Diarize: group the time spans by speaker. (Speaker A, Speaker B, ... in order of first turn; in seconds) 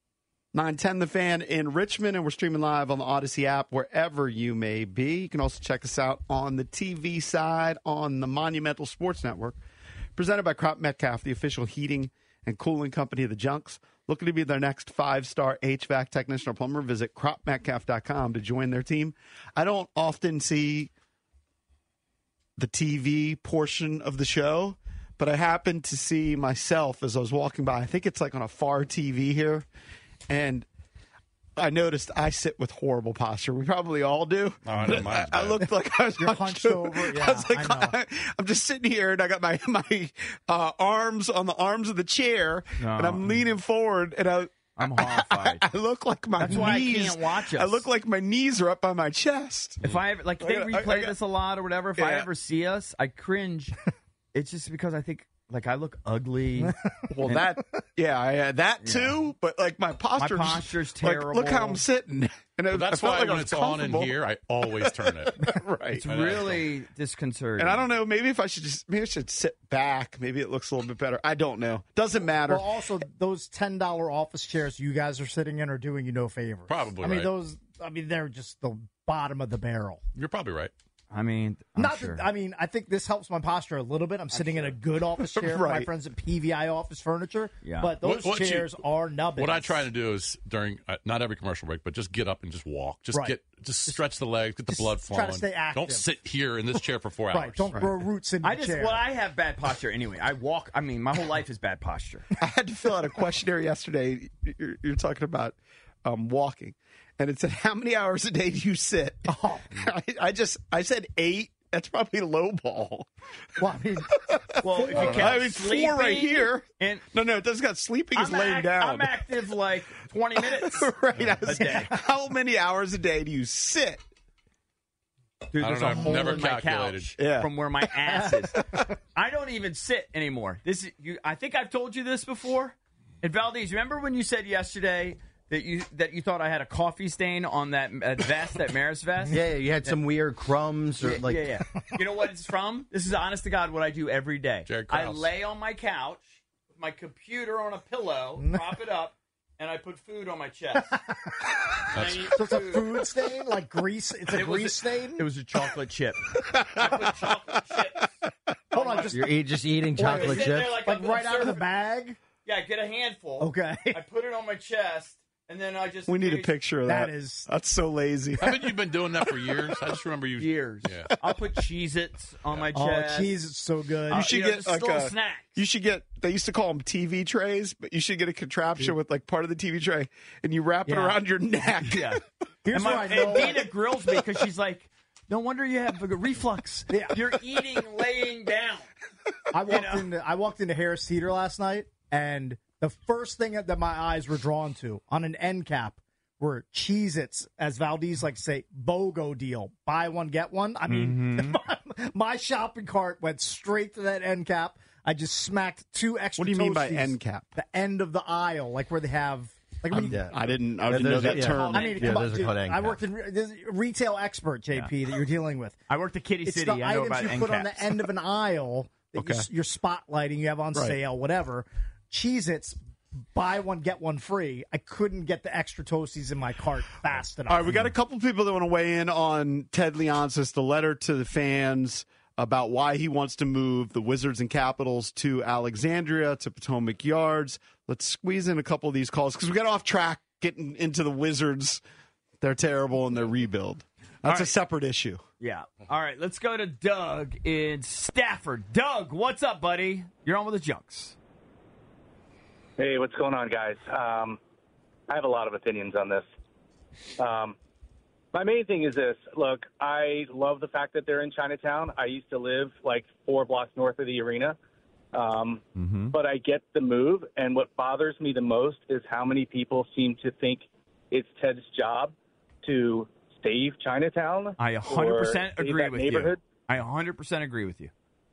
Speaker A: 0.5-9.6, 10.2-20.9, 22.6-29.6, 30.3-30.7, 31.6-49.8, 50.4-51.2, 52.0-52.3, 57.1-66.0, 67.6-72.7, 85.2-85.9, 102.4-113.1, 114.3-119.2, 120.4-124.0, 127.2-127.5, 156.5-156.8, 166.1-168.6, 174.1-182.2, 206.4-207.5, 209.9-212.0, 219.2-219.5, 227.4-241.8, 242.4-245.2
Speaker B: 34.6-35.6, 62.7-65.4, 66.0-66.7, 76.7-77.3, 80.1-80.7, 88.0-88.8, 89.4-97.8, 125.6-127.1, 144.7-145.2, 151.9-152.3, 168.4-171.1
Speaker C: 36.2-37.9, 46.4-46.8, 72.5-80.0, 81.8-89.8, 94.7-96.0, 97.3-99.0, 109.3-109.7, 113.6-115.3, 126.1-126.4, 150.8-151.3, 152.3-155.2, 158.7-162.2, 163.4-164.0, 166.8-167.5, 172.7-174.3, 180.8-181.2, 182.7-183.7, 186.9-187.2, 189.5-210.3, 211.4-215.8, 216.4-222.8, 223.3-227.8
Speaker D: 42.8-43.4, 44.8-45.6, 46.4-47.9, 49.8-53.8, 54.3-57.5, 58.8-59.2, 60.1-61.8, 66.0-67.8, 81.1-82.2, 84.3-84.7, 87.6-87.9, 98.4-102.3, 114.6-117.0, 118.1-120.9, 121.4-121.9, 125.5-128.6, 129.1-140.0, 141.0-150.9, 151.9-153.0, 154.3-158.1, 158.7-159.2, 160.0-161.6, 162.4-166.5, 170.4-173.3, 174.2-175.6, 181.8-188.9, 189.7-190.1, 200.9-201.6, 210.9-212.4, 215.9-218.0, 244.2-244.5, 245.4-251.2, 265.8-266.1, 274.6-277.9
Speaker E: 139.3-141.5, 159.1-160.8, 209.9-213.0
Speaker F: 252.8-254.4, 255.1-256.2, 257.2-257.6, 258.3-264.6, 265.1-276.4